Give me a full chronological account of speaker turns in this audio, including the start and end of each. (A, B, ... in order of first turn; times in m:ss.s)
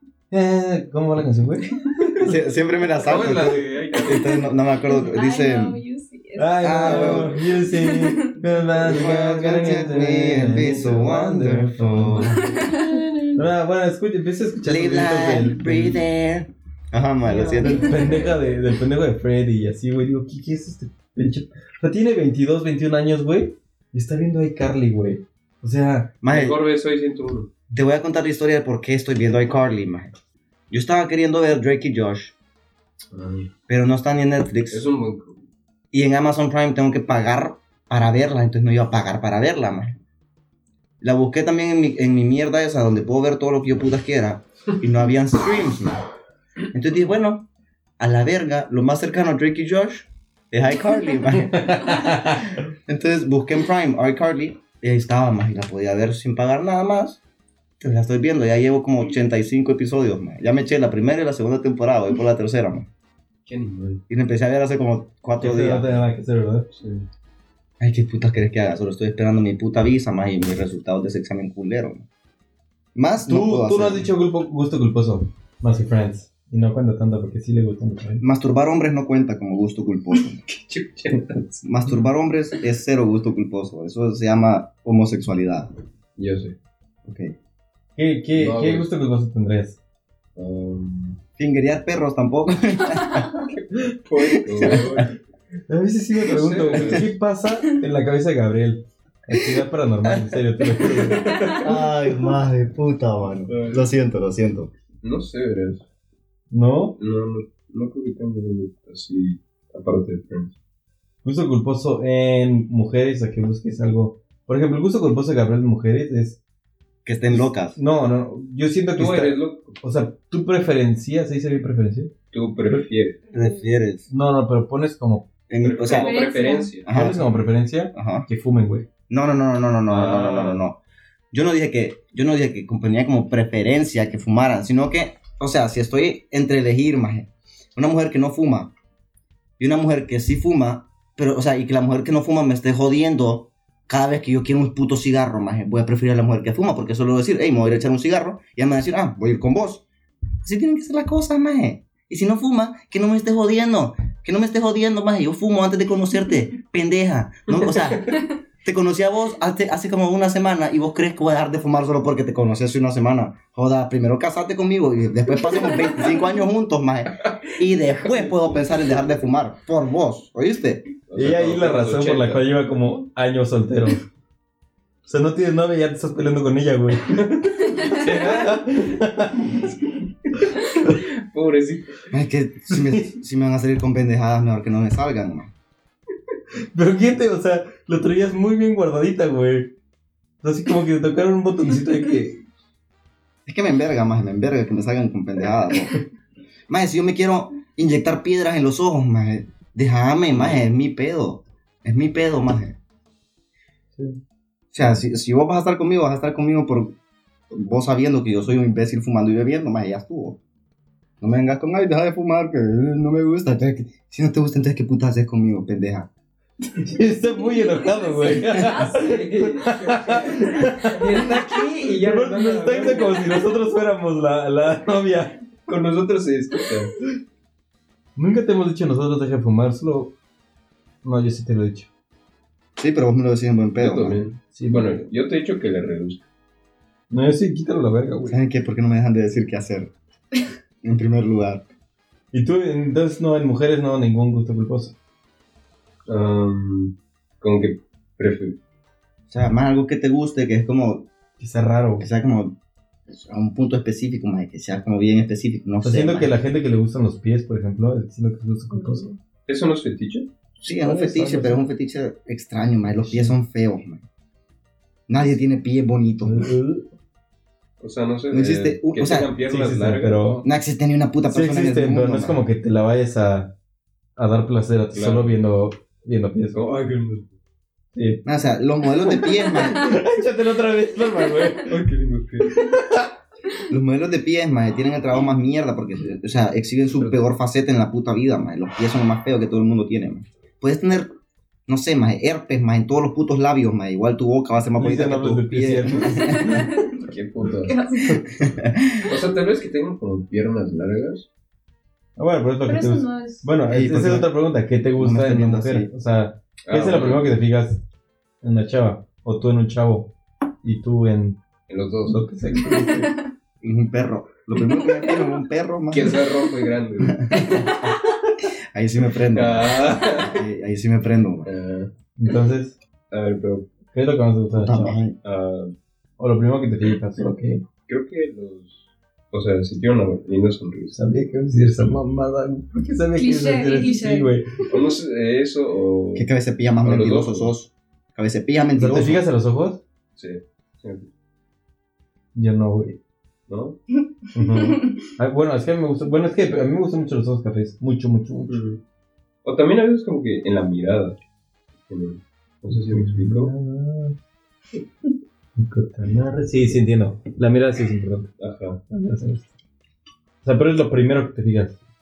0:00.3-0:02.3 A
0:02.2-0:05.8 B
0:03.0-0:04.5 C
0:04.1-0:08.3 D
0:06.4-0:12.5 A
0:06.6-0:07.3 B
0:06.9-0:07.2 C
0:08.8-0:12.6 B
0:12.4-0:13.1 D
0:13.4-0:16.0 A
0:14.6-0:18.1 B
0:17.2-0:18.3 D
0:17.6-0:26.1 A
0:26.2-0:26.6 B
0:26.3-0:27.5 C
0:27.7-0:30.1 B
0:30.7-0:32.3 B
0:33.1-0:33.5 C
0:33.7-0:34.8 B
0:34.7-0:35.4 C
0:35.9-0:40.0 B
0:41.0-0:46.0 B
0:46.7-0:47.5 B
0:48.0-0:57.2 B
0:51.5-0:52.5 A
0:57.8-1:02.9 B
1:03.4-1:04.0 C
1:04.1-1:06.0 B
1:05.4-1:06.7 A
1:06.7-1:07.0 C
1:07.8-1:12.0 B
1:12.9-1:14.1 B
1:13.2-1:18.2 A
1:18.2-1:20.4 B
1:20.1-1:21.4 C
1:21.6-1:25.7 B
1:26.2-1:26.5 C
1:27.0-1:27.3 B
1:28.0-1:29.8 A
1:28.3-1:28.9 C
1:30.4-1:31.2 C
1:31.4-1:33.3 B
1:33.5-1:35.2 C
1:34.2-1:35.0 B
1:35.7-1:41.6 A
1:36.3-1:37.1 C
1:36.7-1:37.0 B
1:41.5-1:44.7 B
1:43.5-1:43.8 C
1:45.0-1:45.8 C
1:46.5-1:47.0 A
1:47.0-1:50.5 C
1:51.2-1:56.4 A
1:57.0-1:57.8 B
1:57.3-2:02.1 A
1:59.0-1:59.8 C
2:02.3-2:03.2 C
2:03.3-2:04.1 B
2:04.1-2:05.3 A
2:05.5-2:06.2 B
2:05.6-2:07.1 C
2:05.9-2:06.7 D
2:06.8-2:07.3 B
2:06.9-2:08.9 A
2:07.9-2:08.3 B
2:09.1-2:10.8 B
2:09.9-2:10.6 C
2:11.3-2:18.7 B
2:19.6-2:29.8 B
2:30.4-2:50.9 B
2:37.6-2:38.2 C
2:51.1-2:52.4 C
2:51.2-2:54.0 A
2:55.0-2:59.8 A
2:57.8-2:58.6 C
3:00.4-3:01.0 A
3:00.9-3:01.9 C
3:02.1-3:05.5 B
3:02.7-3:03.1 A
3:06.7-3:09.7 A
3:10.4-3:12.4 A
3:13.4-3:16.0 B
3:16.7-3:22.8 B
3:20.3-3:20.6 C
3:23.9-3:24.2 A
3:24.7-3:26.9 B
3:27.5-3:30.4 B
3:31.2-3:36.1 B
3:36.8-3:45.4 A
3:37.6-3:38.6 D
3:38.6-3:43.4 C
3:45.7-3:46.9 C
3:48.2-3:50.2 A
3:51.0-3:51.9 A
3:52.8-3:54.2 B
3:53.8-3:56.2 C
3:54.5-3:55.0 A
3:57.1-3:58.4 A
3:58.3-3:59.9 B
4:00.8-4:01.6 B
4:02.3-4:05.0 A
4:06.1-4:08.6 C
4:09.3-4:11.1 B
4:11.4-4:12.1 A
4:12.0-4:12.5 B
4:13.1-4:16.3 B
4:15.8-4:19.1 A
4:18.7-4:19.2 D
4:19.5-4:20.3 C
4:20.6-4:24.0 B
4:20.8-4:21.6 A
4:23.0-4:23.4 A
4:25.1-4:26.4 B
4:26.2-4:26.9 A
4:27.8-4:30.3 C
4:28.3-4:29.3 B
4:29.5-4:30.4 A
4:30.4-4:32.4 B
4:31.3-4:33.5 A
4:34.2-4:36.6 A
4:34.9-4:35.4 C
4:36.5-4:37.3 C
4:37.9-4:38.2 A
4:38.2-4:39.9 B
4:39.1-4:41.8 A
4:41.6-4:42.6 C
4:42.5-4:43.1 A
4:43.7-4:51.1 B
4:47.0-4:47.2 C
4:51.7-4:56.7 B
4:54.8-4:56.6 A
4:56.1-4:57.0 D
4:56.8-4:57.8 C
4:57.6-4:58.3 D
4:58.3-4:59.1 B
4:59.0-5:01.3 C
5:02.2-5:07.8 A
5:02.6-5:03.5 D
5:03.7-5:04.3 B
5:05.0-5:05.9 B
5:06.6-5:07.4 C
5:08.4-5:11.4 A
5:11.7-5:12.2 C
5:12.1-5:13.1 A
5:12.8-5:13.1 D
5:13.6-5:16.3 B
5:15.9-5:17.6 C
5:17.1-5:17.9 B
5:17.4-5:17.7 D
5:18.7-5:21.5 B
5:19.3-5:20.4 C
5:21.4-5:21.9 C
5:22.2-5:22.8 A
5:23.1-5:23.7 C
5:23.9-5:25.0 A
5:24.5-5:25.2 B
5:25.2-5:25.7 C
5:26.2-5:27.6 A
5:27.9-5:31.0 C
5:30.9-5:34.5 A
5:33.1-5:34.3 D
5:34.7-5:36.3 C
5:36.1-5:39.2 B
5:36.8-5:37.5 C
5:38.8-5:39.8 A
5:40.2-5:41.1 C
5:42.3-5:43.0 A
5:43.5-5:43.8 C
5:44.3-5:48.6 A
5:48.5-5:48.8 C
5:49.4-5:51.2 C
5:51.8-5:53.5 C
5:52.7-5:54.2 A
5:55.6-5:58.3 A
5:58.4-5:58.8 C
5:58.9-5:59.5 A
6:00.4-6:01.8 A